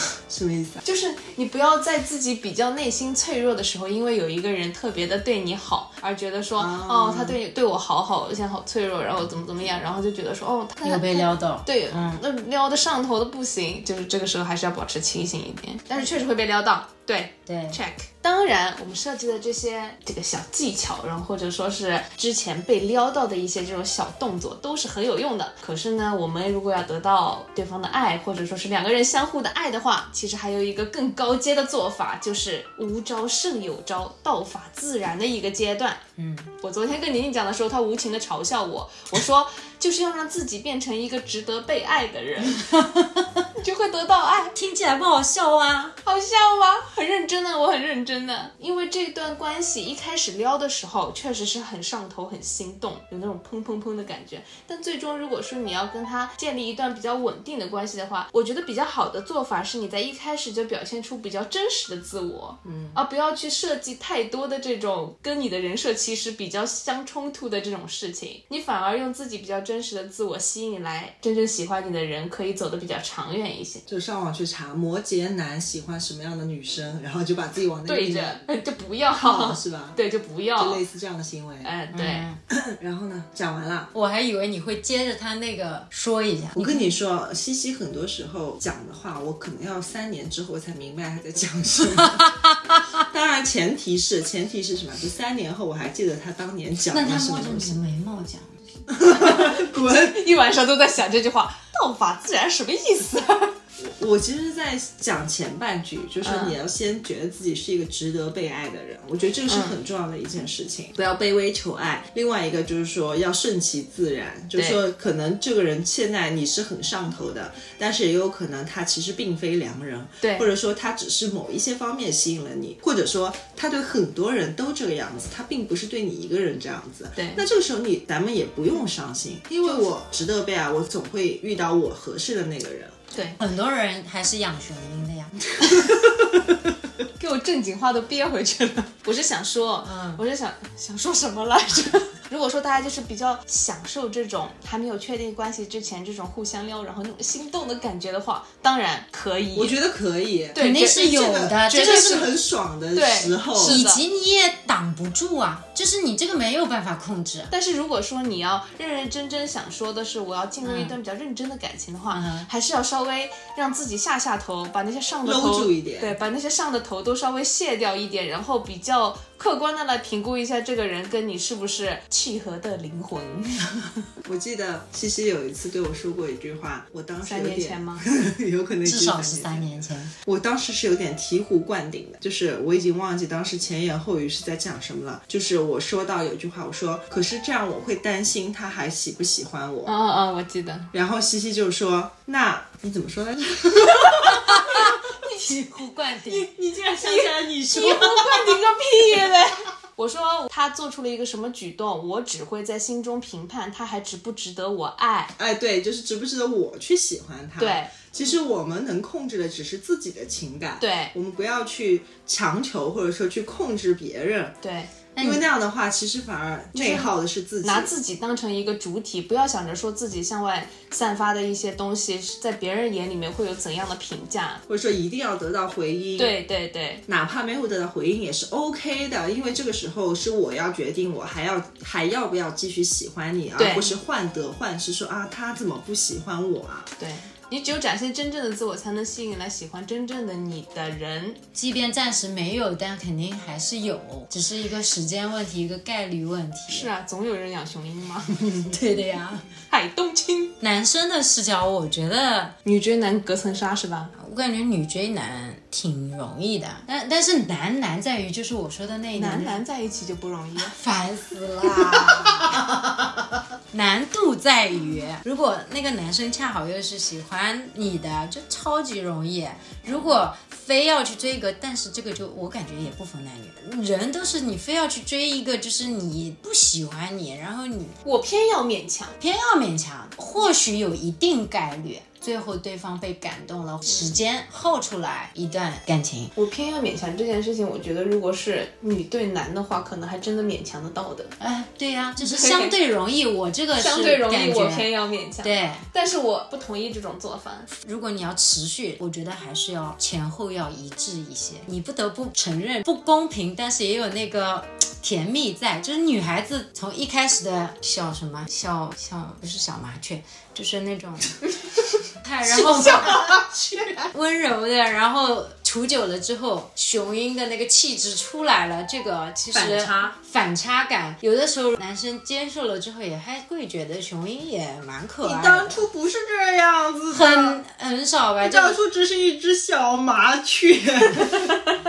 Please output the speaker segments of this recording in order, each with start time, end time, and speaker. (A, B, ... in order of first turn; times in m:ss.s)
0:00.3-0:00.8 A
0:00.8-0:36.0 B
0:06.6-0:07.4 A
0:10.8-0:12.2 C
0:17.4-0:17.8 C
0:36.2-0:36.5 C
0:36.6-0:42.6 B
0:42.6-0:43.4 C
0:43.6-0:44.5 B
0:44.5-0:46.0 C
0:46.0-1:13.8 B
1:02.6-1:03.0 A
1:13.9-1:18.4 A
1:17.9-1:20.8 B
1:19.2-1:20.0 A
1:20.6-1:21.7 A
1:21.6-1:22.3 B
1:21.9-1:22.4 C
1:22.5-1:23.9 A
1:23.9-1:26.9 C
1:26.6-1:37.8 A
1:36.9-1:38.9 C
1:38.9-1:40.3 A
1:39.1-1:43.5 B
1:43.8-2:13.0 A
1:46.2-1:46.6 B
1:49.5-1:49.8 B
2:00.2-2:00.5 B
2:07.2-2:07.4 B
2:13.1-2:13.4 B
2:13.4-2:15.8 C
2:15.6-2:16.6 A
2:17.2-2:29.8 B
2:19.8-2:20.2 C
2:29.5-2:33.8 A
2:30.5-2:31.0 B
2:30.6-2:32.2 C
2:31.6-2:32.4 B
2:32.9-2:34.0 B
2:33.5-2:37.5 C
2:37.5-2:53.8 B
2:40.6-2:41.0 C
2:42.1-2:42.5 C
2:45.2-2:46.2 A
2:54.2-2:59.6 A
2:57.2-2:58.0 B
2:58.8-3:00.1 C
3:00.2-3:09.9 A
3:09.8-3:10.9 B
3:10.9-3:14.8 A
3:14.1-3:15.5 B
3:14.4-3:16.5 C
3:16.2-3:18.6 A
3:16.6-3:25.3 B
3:25.4-3:34.5 A
3:27.6-3:28.1 B
3:30.8-3:31.1 B
3:34.6-3:34.9 B
3:35.2-3:35.4 C
3:35.2-3:37.9 A
3:36.7-3:37.1 B
3:37.6-3:44.6 B
3:44.7-3:46.4 A
3:46.2-3:47.0 B
3:47.1-3:56.9 A
3:53.6-3:53.9 B
3:57.0-4:01.4 B
4:01.5-4:06.9 C
4:06.7-4:08.6 B
4:08.7-4:09.4 C
4:09.7-4:10.5 B
4:10.6-4:12.5 C
4:12.6-4:14.1 B
4:14.2-4:19.6 C
4:19.2-4:20.8 B
4:20.6-4:22.6 C
4:23.7-4:38.0 C
4:38.0-4:39.2 B
4:39.2-4:46.3 C
4:46.3-4:51.3 B
4:51.4-4:54.9 C
4:52.2-4:52.7 B
4:53.7-4:57.7 B
4:55.4-4:55.8 C
4:57.7-5:11.4 C
5:12.2-5:13.4 C
5:12.4-5:14.1 A
5:14.1-5:25.8 C
5:19.5-5:20.1 A
5:25.2-5:27.6 A
5:27.1-5:28.8 C
5:28.4-5:31.6 A